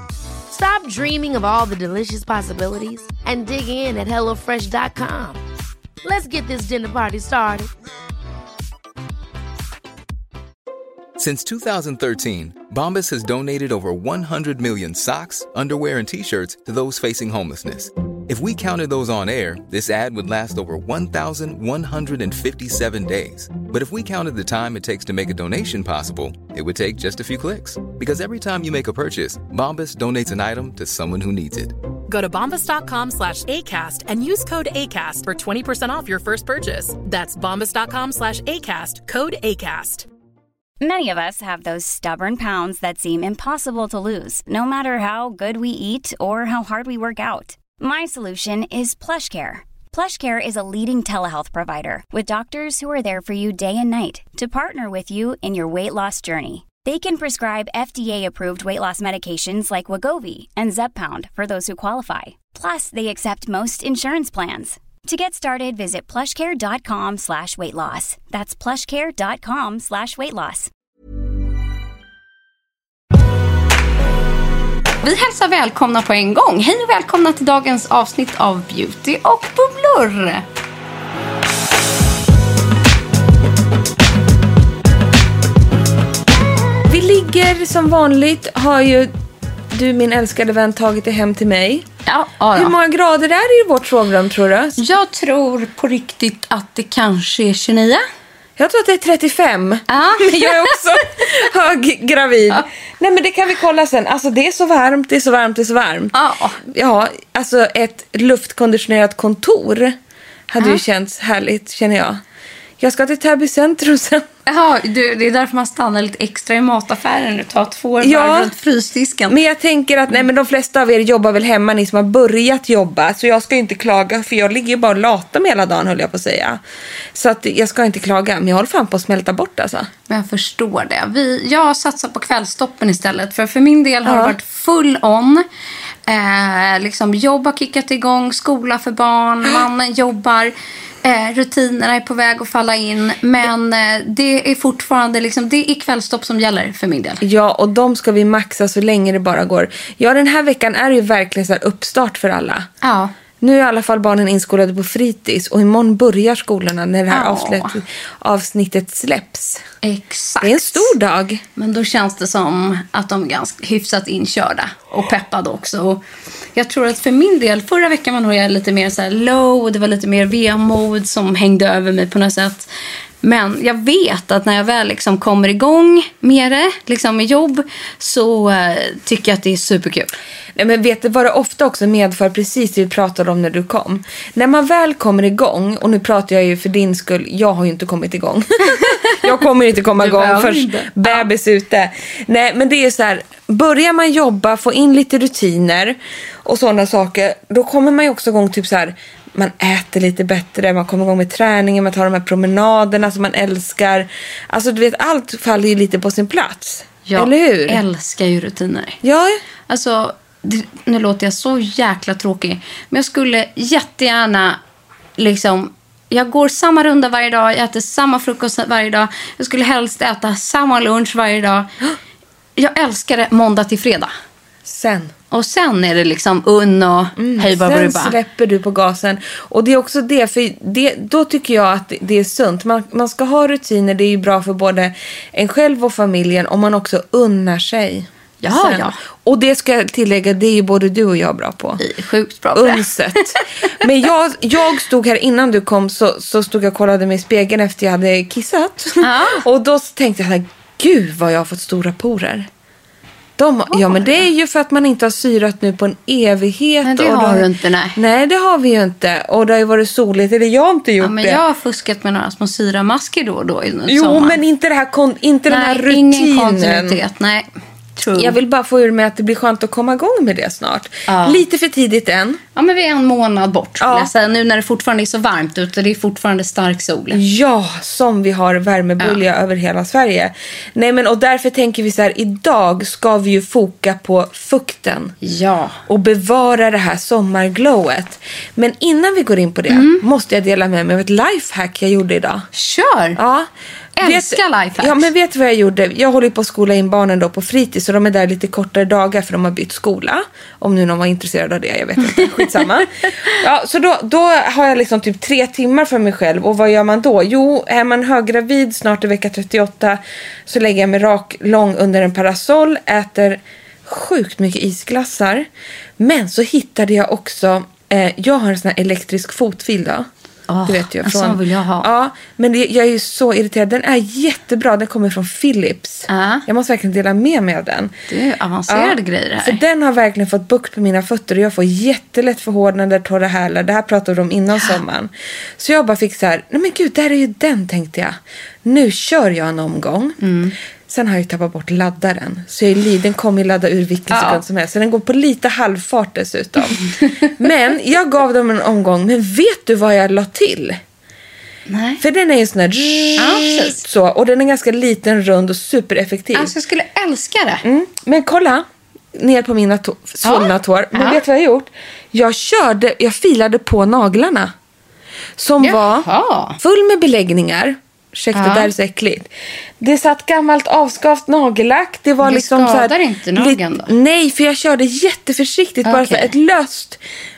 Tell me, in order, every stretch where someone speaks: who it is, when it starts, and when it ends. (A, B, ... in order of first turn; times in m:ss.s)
0:00.5-0:05.4 A
0:06.0-0:07.7 A
0:11.2-0:31.7 B
0:32.1-0:40.1 C
0:40.8-1:10.7 D
1:15.0-1:20.4 E
1:26.8-1:29.1 F
1:29.7-1:31.9 F
1:32.0-1:32.7 E
1:32.5-1:34.8 F
1:34.8-1:38.0 E
1:38.6-1:50.0 F
1:39.9-1:41.1 E
1:46.1-1:46.6 E
1:50.5-1:52.2 F
1:52.8-1:54.3 F
1:54.4-1:59.4 E
1:58.0-1:58.5 F
1:59.3-2:06.6 F
2:07.1-2:09.9 F
2:10.1-2:15.4 E
2:14.0-2:14.4 F
2:16.1-2:27.2 E
2:27.2-2:32.7 F
2:32.8-2:33.1 E
2:33.4-2:39.6 F
2:37.1-2:37.8 E
2:39.8-2:40.9 E
2:40.4-2:41.4 F
2:41.6-2:46.0 E
2:46.5-2:52.7 E
2:53.2-3:00.1 E
3:00.6-3:27.8 F
3:08.7-3:09.2 E
3:10.0-3:11.2 E
3:27.0-3:29.0 E
3:29.0-3:29.4 F
3:29.7-3:34.6 E
3:35.2-3:41.7 E
3:42.6-3:44.1 E
3:44.6-3:45.1 F
3:45.3-3:48.2 E
3:47.2-4:01.8 F
3:58.4-3:59.0 E
4:01.8-4:03.7 E
4:02.5-4:12.5 F
4:09.0-4:09.4 E
4:13.4-4:21.4 F
4:13.7-4:14.2 E
4:16.8-4:18.0 E
4:21.0-4:24.4 E
4:23.9-4:27.0 F
4:25.5-4:28.3 E
4:28.1-4:32.4 F
4:31.1-4:31.4 E
4:32.5-4:37.2 E
4:33.8-4:34.1 F
4:37.1-4:45.2 F
4:45.2-4:45.8 E
4:45.9-4:52.4 F
4:49.7-4:50.0 E
4:52.5-4:53.2 E
4:53.2-5:15.5 F
4:54.0-4:55.1 E
5:02.0-5:03.1 E
5:16.0-5:20.1 F
5:20.5-5:21.9 E
5:20.6-5:27.9 F
5:26.1-5:26.4 E
5:28.1-5:29.6 E
5:28.7-5:40.3 F
5:40.2-5:40.5 E
5:40.9-5:50.8 F
5:44.1-5:44.4 E
5:51.7-5:52.0 E
5:52.0-5:56.5 F
5:53.2-5:53.8 E
5:56.3-5:57.6 E
5:57.6-6:04.5 F
6:00.2-6:01.2 E
6:05.4-6:06.1 F
6:05.6-6:06.6 E
6:06.6-6:09.3 F
6:08.3-6:08.7 E
6:09.8-6:17.0 F
6:12.2-6:13.9 E
6:15.8-6:16.3 E